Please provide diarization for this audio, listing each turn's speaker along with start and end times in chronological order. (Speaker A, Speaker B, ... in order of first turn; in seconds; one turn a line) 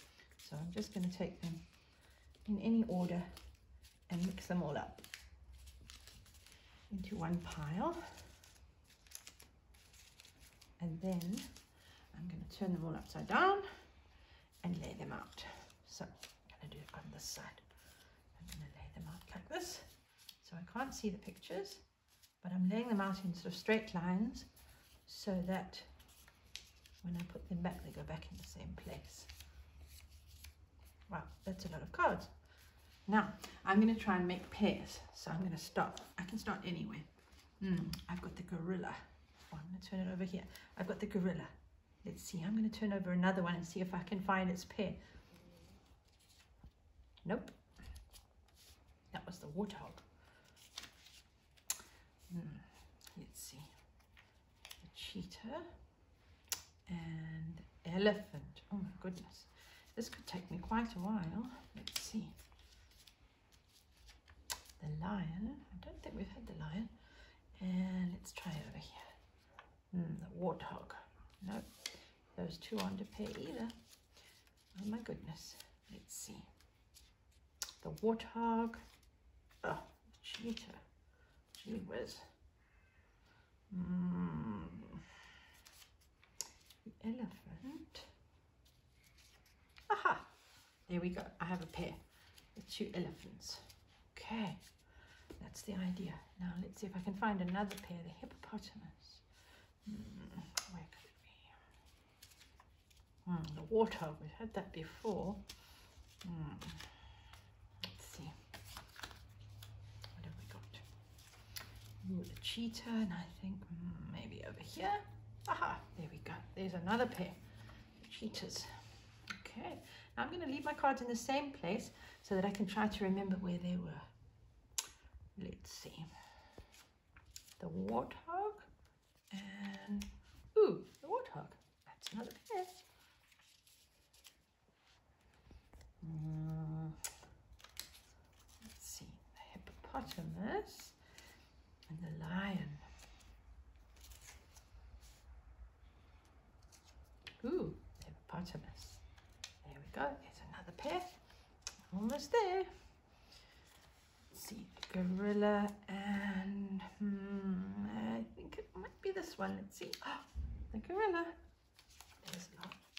Speaker A: 0.4-1.7
Speaker A: 2.4-3.4
Speaker A: 4.1-5.0
Speaker A: 6.9-8.3
Speaker A: 10.8-11.5
Speaker A: 12.1-13.8
Speaker A: 14.6-21.8
Speaker A: 22.4-24.5
Speaker A: 25.0-25.9
Speaker A: 27.0-29.3
Speaker A: 31.1-32.4
Speaker A: 33.0-45.0
Speaker A: 47.2-47.6
Speaker A: 49.1-50.0
Speaker A: 52.3-53.7
Speaker A: 54.8-55.7
Speaker A: 56.9-62.4
Speaker A: 64.8-69.1
Speaker A: 69.9-73.8
Speaker A: 74.7-76.5
Speaker A: 77.8-78.8
Speaker A: 79.6-80.8
Speaker A: 81.5-82.3
Speaker A: 83.7-85.0
Speaker A: 86.8-88.1
Speaker A: 89.9-90.3
Speaker A: 90.8-94.7
Speaker A: 95.4-101.6
Speaker A: 103.2-105.5
Speaker A: 106.2-107.1
Speaker A: 107.8-108.3
Speaker A: 110.1-110.8
Speaker A: 112.0-117.4
Speaker A: 118.0-124.0
Speaker A: 125.3-126.1
Speaker A: 127.6-128.7
Speaker A: 129.3-132.8
Speaker A: 136.0-137.0
Speaker A: 138.6-141.0
Speaker A: 141.9-142.8
Speaker A: 147.4-149.0
Speaker A: 149.6-151.1
Speaker A: 151.9-152.8
Speaker A: 154.3-161.4
Speaker A: 162.2-162.8